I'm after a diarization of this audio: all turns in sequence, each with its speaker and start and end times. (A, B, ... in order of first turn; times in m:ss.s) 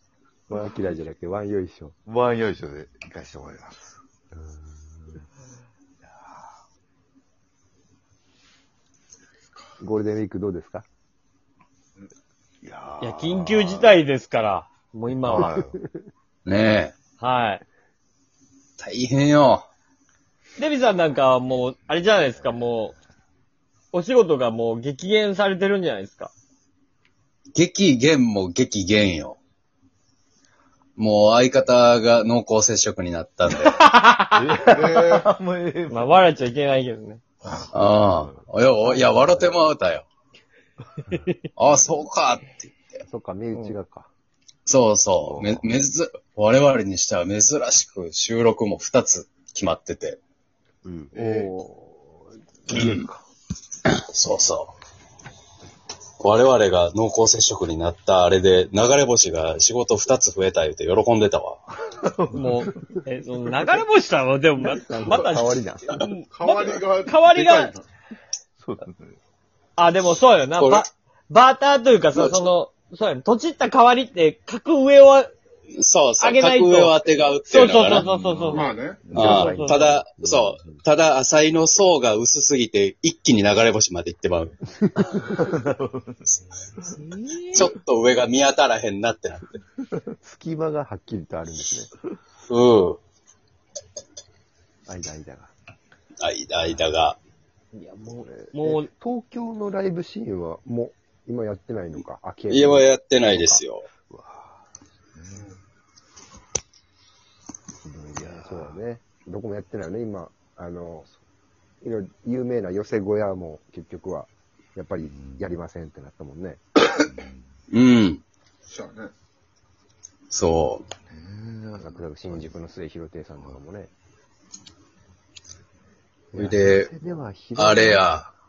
0:00.5-0:01.9 A
0:02.0-0:03.9 B
0:04.3-0:05.2 A
0:06.0-0:06.5 B
0:09.8-0:10.8 A
0:12.6-0:14.0 B
0:13.0-0:15.5 C
0:15.2-0:15.8 B
0:15.3-0:15.8 A
0:16.4-0:16.9 D
0:17.2-0:17.6 C
0:18.8-0:19.6 D
0:20.6-0:22.9 C
0:23.9-0:26.3 C
0:27.5-0:29.4 D
0:31.0-0:33.8 D
0:33.6-0:34.5 C
0:34.3-0:36.2 B
0:34.7-0:35.2 E
0:35.9-0:37.2 C
0:37.4-0:38.4 B
0:37.7-0:40.1 D
0:41.6-0:43.0 D
0:43.0-0:44.1 A
0:44.6-0:50.2 D
0:45.2-0:45.7 B
0:50.8-0:51.3 B
0:51.1-0:51.7 E
0:52.7-0:53.2 B
0:52.7-0:53.0 D
0:53.9-0:54.7 D
0:56.2-1:01.6 D
1:01.9-1:02.7 B
1:02.3-1:07.7 C
1:04.6-1:06.0 A
1:06.3-1:07.8 E
1:08.6-1:09.2 B
1:09.8-1:15.3 C
1:10.6-1:10.9 D
1:12.1-1:12.5 D
1:15.8-1:18.1 D
1:16.2-1:20.0 C
1:18.0-1:19.4 B
1:18.5-1:19.0 E
1:19.1-1:24.6 D
1:19.1-1:20.8 A
1:25.0-1:25.3 A
1:25.4-1:26.1 B
1:26.9-1:27.7 C
1:27.5-1:29.6 D
1:30.1-1:31.9 A
1:32.5-1:33.0 D
1:34.9-1:35.5 A
1:36.2-1:37.2 D
1:36.6-1:36.8 A
1:37.7-1:38.9 C
1:38.2-1:42.9 A
1:42.5-1:43.8 D
1:44.1-1:44.5 B
1:45.1-1:45.5 B
1:47.8-1:51.1 A
1:48.2-1:48.8 B
1:51.8-1:56.6 A
1:55.0-1:55.4 B
1:57.1-1:57.4 B
1:57.7-1:58.2 D
1:58.7-1:59.1 E
2:00.3-2:00.9 D
2:01.1-2:02.5 B
2:01.8-2:03.9 A
2:06.3-2:08.1 A
2:06.3-2:06.9 D
2:07.6-2:08.3 D